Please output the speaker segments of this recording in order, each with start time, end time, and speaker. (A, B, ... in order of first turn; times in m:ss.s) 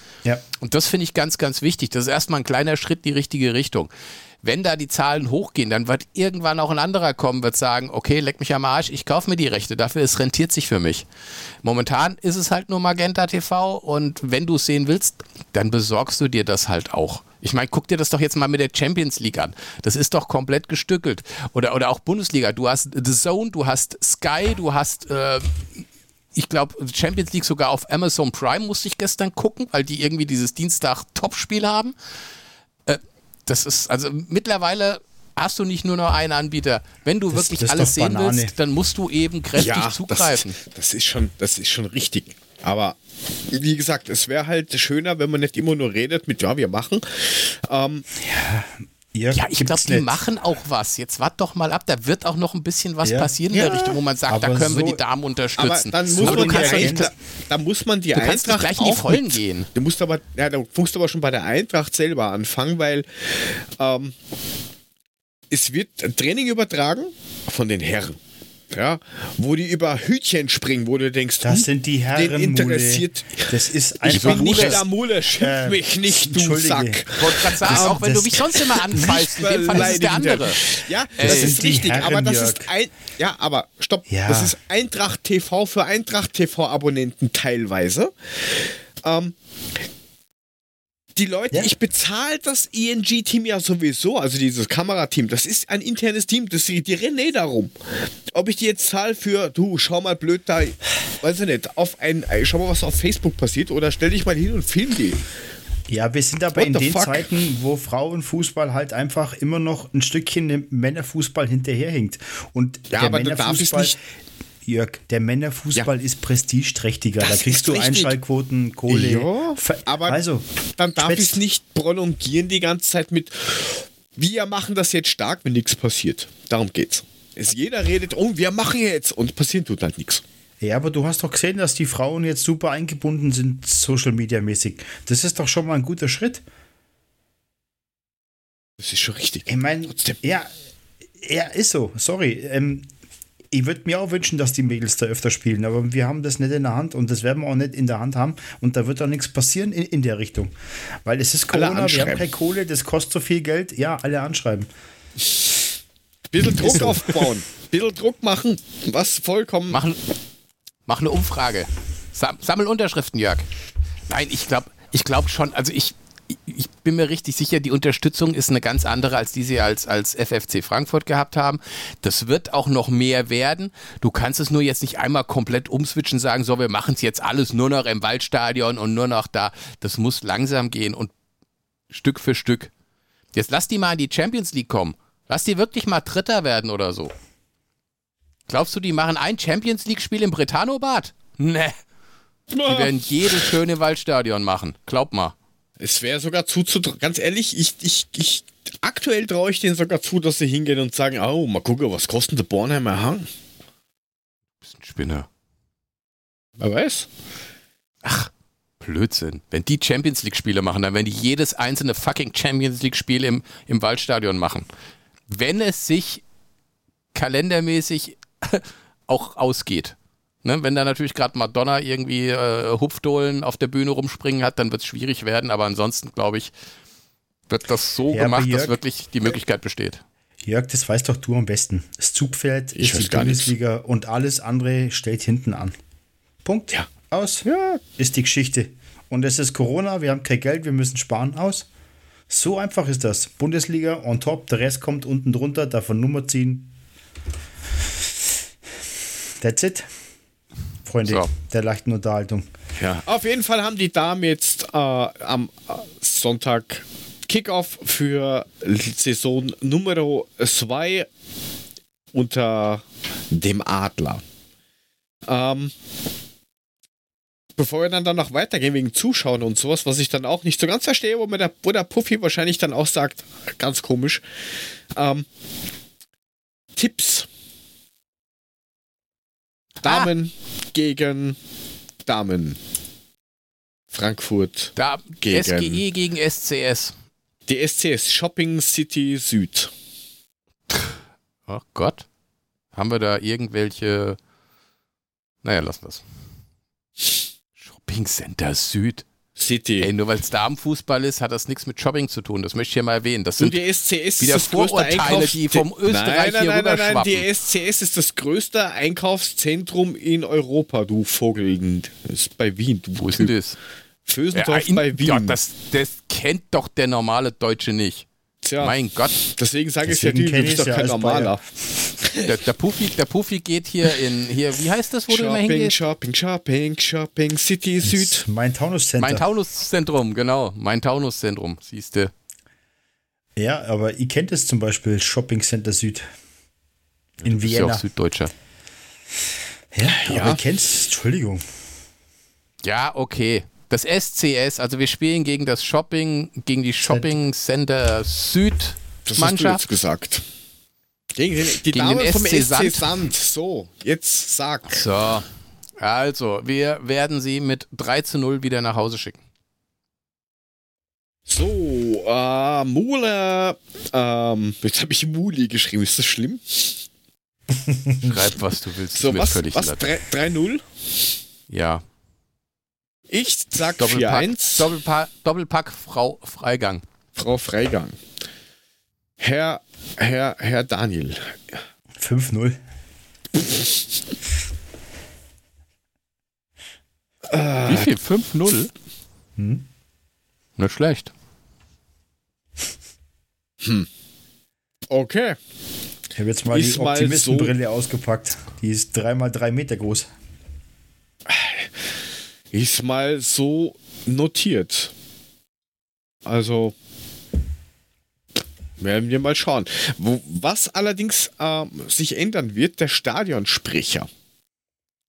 0:00.6-0:03.9 A
0:04.4-0:11.0 A
0:11.6-0:25.6 A
0:26.3-0:31.9 A
0:32.9-0:40.6 A
0:37.3-0:38.5 B
0:39.6-0:48.0 C
0:48.2-0:50.2 B
0:49.3-0:57.1 A
0:53.0-0:55.0 B
0:55.6-1:04.1 C
0:56.2-0:57.1 B
0:58.1-0:59.7 A
1:05.5-1:08.2 C
1:08.7-1:13.5 C
1:11.4-1:14.8 B
1:14.0-1:29.3 C
1:14.1-1:14.8 A
1:15.4-1:17.0 B
1:17.2-1:20.6 A
1:17.6-1:19.2 B
1:21.2-1:21.6 A
1:21.2-1:22.7 B
1:24.1-1:24.6 B
1:31.2-1:37.7 C
1:38.3-1:45.2 C
1:45.9-1:54.0 B
1:46.6-1:47.3 C
1:52.9-1:54.0 C
1:54.6-2:00.4 B
1:57.2-1:58.1 C
1:58.9-2:00.2 C
2:00.8-2:10.2 C
2:01.0-2:01.4 B
2:10.6-2:16.4 B
2:18.8-2:20.2 C
2:19.5-2:20.5 B
2:21.1-2:22.9 B
2:23.5-2:34.7 B
2:31.5-2:32.2 C
2:36.3-2:39.8 C
2:39.7-2:40.0 A
2:40.9-2:43.5 A
2:44.1-3:01.1 A
3:01.9-3:02.7 A
3:03.3-3:07.1 A
3:08.5-3:11.8 A
3:12.5-3:13.5 C
3:12.6-3:15.3 A
3:15.8-3:23.3 C
3:24.7-3:25.3 A
3:26.6-3:27.1 C
3:28.0-3:34.7 A
3:35.3-3:36.2 A
3:37.1-3:46.5 A
3:47.5-3:50.0 A
3:48.1-3:48.8 B
3:50.4-3:55.7 B
3:52.8-3:53.5 C
3:56.4-4:01.7 B
3:57.4-3:57.8 C
4:02.3-4:06.7 B
4:09.4-4:09.9 B
4:10.8-4:12.5 B
4:12.8-4:21.1 C
4:22.1-4:24.2 C
4:25.3-4:25.7 C
4:27.6-4:34.2 C
4:34.9-4:35.2 C
4:36.8-4:37.3 C
4:39.8-4:41.4 C
4:39.8-4:40.1 A
4:42.0-4:42.6 C
4:43.9-4:45.8 C
4:44.8-4:46.9 A
4:47.5-4:49.7 C
4:51.5-4:52.0 A
4:52.7-4:54.2 A
4:55.4-4:56.0 A
4:57.6-4:59.0 A
4:59.4-4:59.9 C
4:59.8-5:03.6 A
5:03.4-5:13.3 C
5:04.2-5:07.2 A
5:13.0-5:13.6 A
5:14.1-5:15.4 C
5:14.3-5:18.1 A
5:18.4-5:21.4 C
5:18.6-5:19.2 A
5:19.8-5:21.4 B
5:22.0-5:22.3 C
5:22.2-5:25.7 A
5:25.1-5:28.2 C
5:27.8-5:29.2 B
5:29.0-5:32.1 A
5:33.4-5:36.1 B
5:37.2-5:37.8 B
5:37.2-5:38.3 A
5:39.7-5:41.4 B
5:39.9-5:40.4 C
5:42.6-5:49.6 A
5:46.8-5:47.1 B
5:49.0-5:50.2 C
5:51.2-5:54.9 C
5:51.7-5:53.0 A
5:54.7-5:55.3 A
5:55.8-5:59.2 A
6:01.3-6:06.8 C
6:07.7-6:08.1 B
6:08.0-6:09.9 A
6:09.0-6:10.6 C
6:11.5-6:11.8 A
6:13.1-6:14.7 C
6:13.8-6:16.8 A
6:17.2-6:18.0 C
6:19.2-6:21.6 C
6:22.0-6:22.6 B
6:27.3-6:27.9 C
6:27.7-6:28.7 A
6:29.4-6:29.6 B
6:30.6-6:31.1 A
6:33.6-6:33.9 C
6:34.9-6:35.4 C
6:36.2-6:40.1 B
6:36.5-6:37.5 C
6:41.3-6:41.7 C
6:42.5-6:44.9 C
6:46.2-6:46.7 C
6:48.8-6:54.1 C